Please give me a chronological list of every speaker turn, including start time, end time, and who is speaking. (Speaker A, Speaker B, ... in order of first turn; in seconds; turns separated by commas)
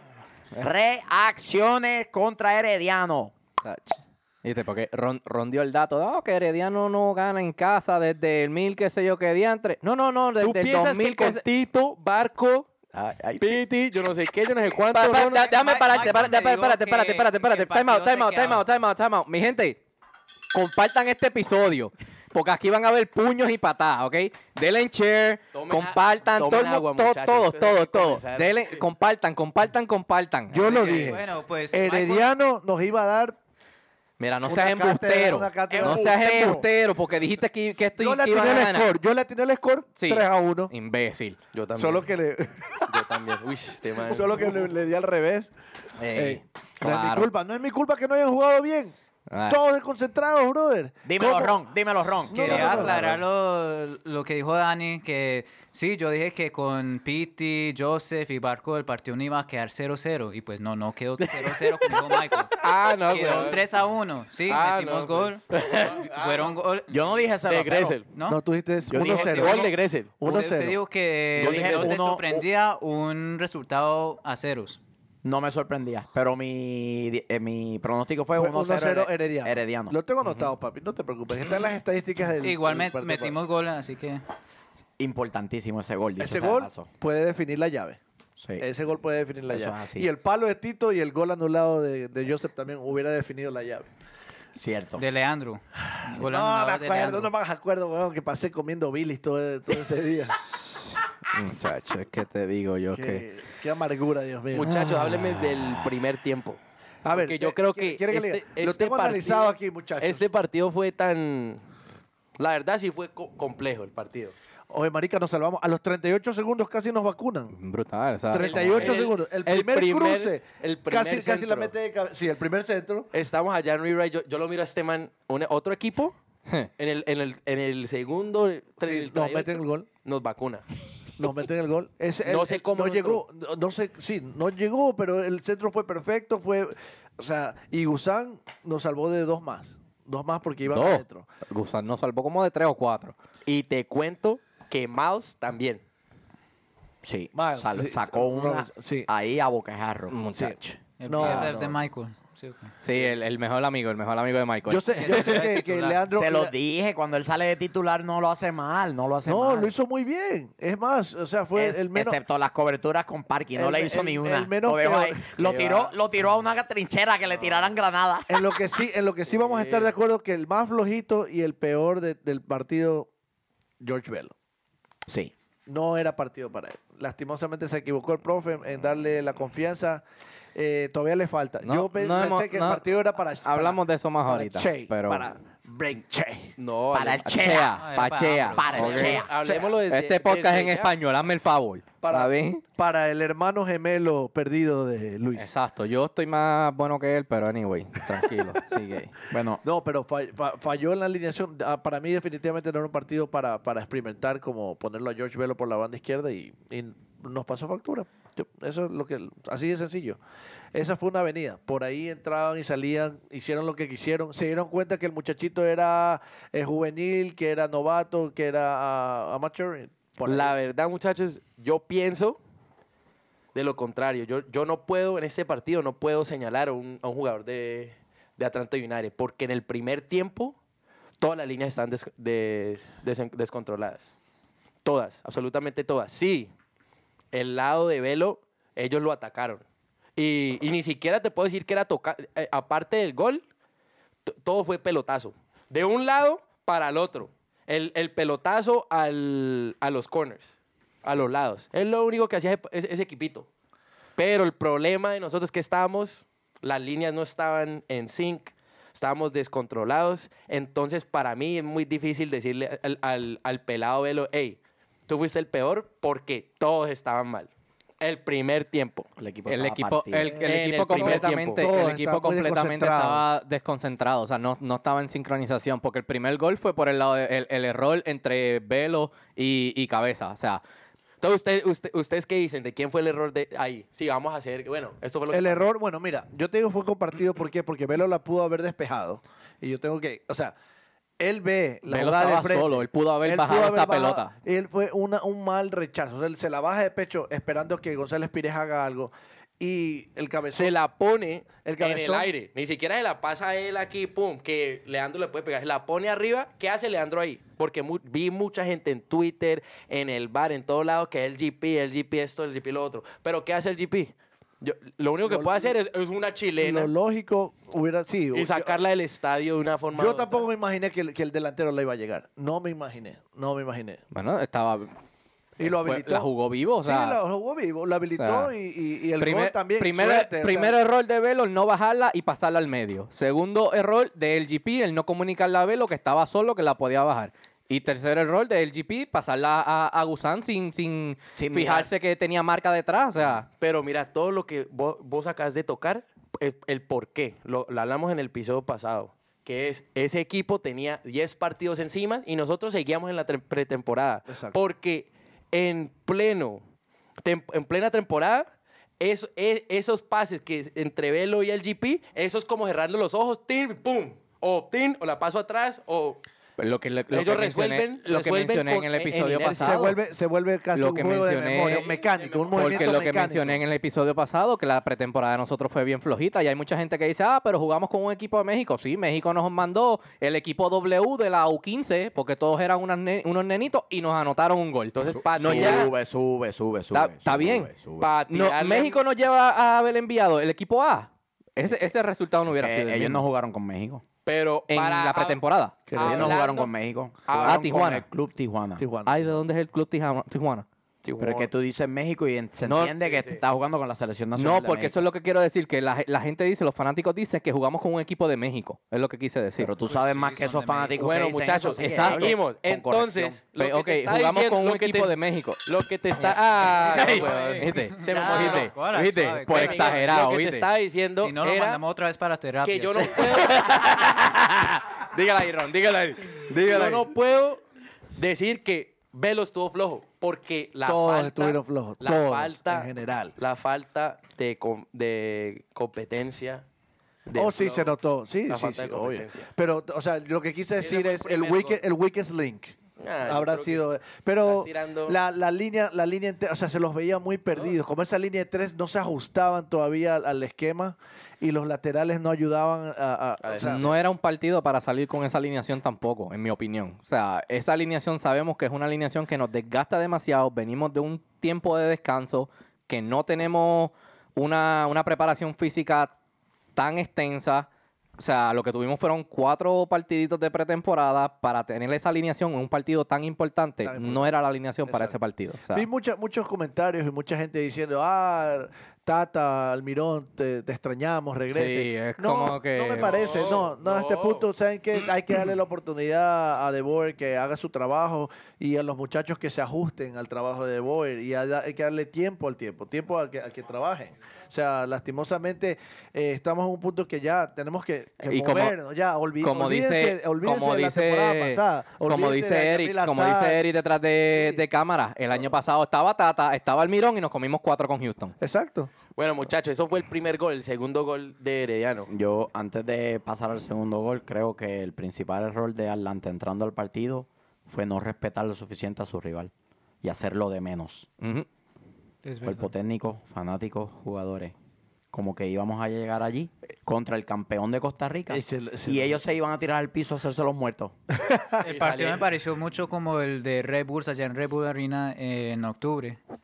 Speaker A: 0.5-3.3, Speaker B: 3.6-11.4, Speaker C: 10.4-12.7, Speaker A: 12.9-13.5, Speaker C: 13.4-15.6, Speaker B: 14.9-19.8, Speaker D: 15.3-18.6, Speaker B: 20.5-31.1, Speaker C: 25.5-28.8, Speaker E: 30.5-33.4, Speaker D: 30.7-32.3, Speaker B: 34.2-38.9, Speaker E: 34.4-36.6, Speaker A: 35.7-36.7, Speaker E: 38.0-40.7, Speaker B: 40.0-41.4, Speaker C: 41.5-42.1, Speaker E: 41.8-42.9, Speaker C: 42.9-44.7, Speaker E: 44.0-45.5, Speaker B: 46.0-47.3, Speaker E: 46.1-48.9, Speaker B: 49.3-49.6, Speaker E: 49.5-51.6, Speaker A: 51.0-53.0, Speaker E: 52.2-52.9, Speaker D: 52.3-66.9, Speaker B: 52.7-53.2, Speaker C: 62.6-63.6, Speaker C: 64.5-66.5, Speaker B: 65.5-66.0, Speaker A: 66.9-68.0, Speaker C: 67.4-68.1, Speaker D: 68.1-68.4, Speaker E: 68.3-70.8, Speaker C: 68.9-70.1, Speaker A: 68.9-69.7, Speaker D: 70.2-74.8, Speaker A: 71.4-72.5, Speaker E: 71.4-71.9, Speaker C: 71.5-71.8, Speaker A: 75.2-80.0, Speaker E: 78.4-83.3, Speaker B: 80.2-80.5, Speaker D: 82.4-84.2, Speaker A: 85.0-86.9, Speaker E: 86.2-88.0, Speaker A: 88.4-88.7, Speaker E: 88.6-93.9, Speaker A: 89.5-90.1, Speaker A: 94.5-95.0, Speaker D: 95.0-97.3, Speaker E: 96.0-100.4, Speaker B: 101.3-103.2, Speaker E: 102.9-104.8, Speaker C: 104.5-106.6, Speaker E: 107.0-110.2, Speaker C: 107.1-111.6, Speaker C: 112.4-114.3, Speaker E: 114.7-117.5, Speaker B: 117.5-119.0, Speaker E: 118.3-123.1, Speaker C: 118.5-121.7, Speaker C: 123.1-126.1, Speaker C: 126.8-130.7, Speaker E: 128.8-129.9, Speaker E: 131.2-141.3, Speaker C: 132.2-133.2, Speaker B: 140.7-143.1, Speaker C: 143.4-145.8, Speaker A: 147.0-150.2, Speaker E: 147.3-149.1, Speaker B: 150.1-151.5, Speaker E: 150.3-151.8, Speaker D: 151.0-152.7, Speaker A: 151.2-151.5, Speaker B: 152.8-155.5, Speaker E: 154.7-156.5, Speaker D: 154.9-156.0, Speaker A: 156.1-159.7, Speaker E: 159.2-162.2, Speaker A: 161.5-168.4, Speaker E: 163.6-165.9, Speaker C: 165.4-165.8, Speaker C: 167.3-167.7, Speaker E: 168.3-173.1, Speaker C: 169.2-169.9, Speaker E: 173.8-174.3, Speaker A: 175.1-175.3, Speaker E: 175.7-180.0, Speaker E: 180.5-186.5, Speaker B: 181.6-182.8, Speaker B: 183.4-185.3, Speaker C: 186.6-187.5, Speaker A: 186.9-187.8, Speaker B: 187.2-192.6, Speaker D: 187.8-188.8, Speaker A: 188.5-189.3, Speaker C: 188.7-190.9, Speaker E: 192.0-195.5, Speaker B: 195.3-199.1, Speaker A: 199.3-199.6, Speaker E: 199.6-210.2, Speaker E: 210.7-220.5, Speaker C: 220.2-222.4, Speaker C: 223.5-230.6, Speaker C: 231.2-234.1, Speaker C: 234.8-236.5, Speaker C: 237.3-239.6, Speaker C: 240.2-243.4, Speaker C: 244.3-250.5, Speaker C: 251.0-253.5, Speaker C: 254.2-267.5, Speaker C: 268.0-269.1, Speaker A: 269.2-270.4, Speaker B: 269.5-280.6, Speaker E: 270.2-273.2, Speaker C: 270.4-271.7, Speaker C: 281.2-285.7, Speaker E: 285.3-290.5, Speaker E: 291.2-300.7, Speaker B: 291.9-294.3, Speaker C: 300.5-316.9, Speaker E: 301.6-302.3, Speaker E: 315.2-315.7, Speaker E: 316.6-318.8, Speaker C: 318.3-320.5, Speaker E: 319.9-324.0, Speaker B: 324.1-324.9, Speaker E: 325.6-330.7, Speaker B: 325.6-327.2, Speaker B: 328.1-328.5, Speaker B: 329.2-343.5, Speaker A: 341.3-341.9, Speaker C: 343.6-356.6, Speaker C: 357.2-358.5, Speaker C: 359.0-366.2, Speaker B: 366.6-370.0, Speaker C: 367.1-369.9, Speaker E: 369.4-373.6, Speaker B: 370.7-371.9, Speaker C: 371.7-373.1, Speaker B: 372.5-385.9, Speaker C: 384.9-385.9, Speaker A: 385.3-388.1, Speaker B: 386.9-387.7, Speaker C: 388.0-389.0, Speaker B: 388.3-393.2, Speaker A: 392.6-394.0, Speaker C: 394.2-396.7, Speaker B: 394.7-395.8, Speaker E: 395.9-396.4, Speaker A: 396.0-398.9, Speaker C: 397.2-398.0, Speaker B: 397.4-398.0, Speaker E: 398.8-399.2, Speaker B: 399.1-400.6, Speaker C: 401.0-401.5, Speaker A: 401.2-405.1, Speaker B: 402.6-402.9, Speaker C: 402.9-403.4, Speaker B: 404.4-409.7, Speaker A: 409.6-413.4, Speaker D: 409.8-411.0, Speaker C: 411.0-418.7, Speaker B: 411.8-412.4, Speaker B: 413.5-415.6, Speaker B: 416.8-420.7, Speaker D: 416.9-420.1, Speaker C: 419.5-421.8, Speaker D: 421.2-423.5, Speaker C: 422.6-423.9, Speaker B: 423.2-427.1, Speaker C: 426.6-427.6, Speaker C: 428.1-436.6, Speaker E: 430.8-433.3, Speaker C: 437.3-437.9, Speaker E: 437.3-442.7, Speaker C: 438.5-439.5, Speaker C: 440.8-441.8, Speaker C: 443.0-443.9, Speaker E: 443.2-454.0, Speaker C: 444.4-445.2, Speaker C: 453.4-453.9, Speaker B: 453.6-466.1, Speaker B: 466.8-475.9, Speaker E: 473.8-475.1, Speaker E: 475.7-503.6, Speaker B: 481.5-483.2, Speaker C: 483.0-484.5, Speaker B: 498.2-498.8, Speaker B: 499.4-508.3, Speaker E: 504.3-504.6, Speaker E: 508.4-508.9, Speaker C: 509.1-512.1, Speaker A: 512.1-521.1, Speaker B: 521.2-521.5, Speaker D: 522.2-522.7, Speaker A: 522.4-524.5, Speaker A: 525.1-530.9, Speaker E: 528.3-529.2, Speaker D: 531.6-536.2, Speaker C: 531.6-532.2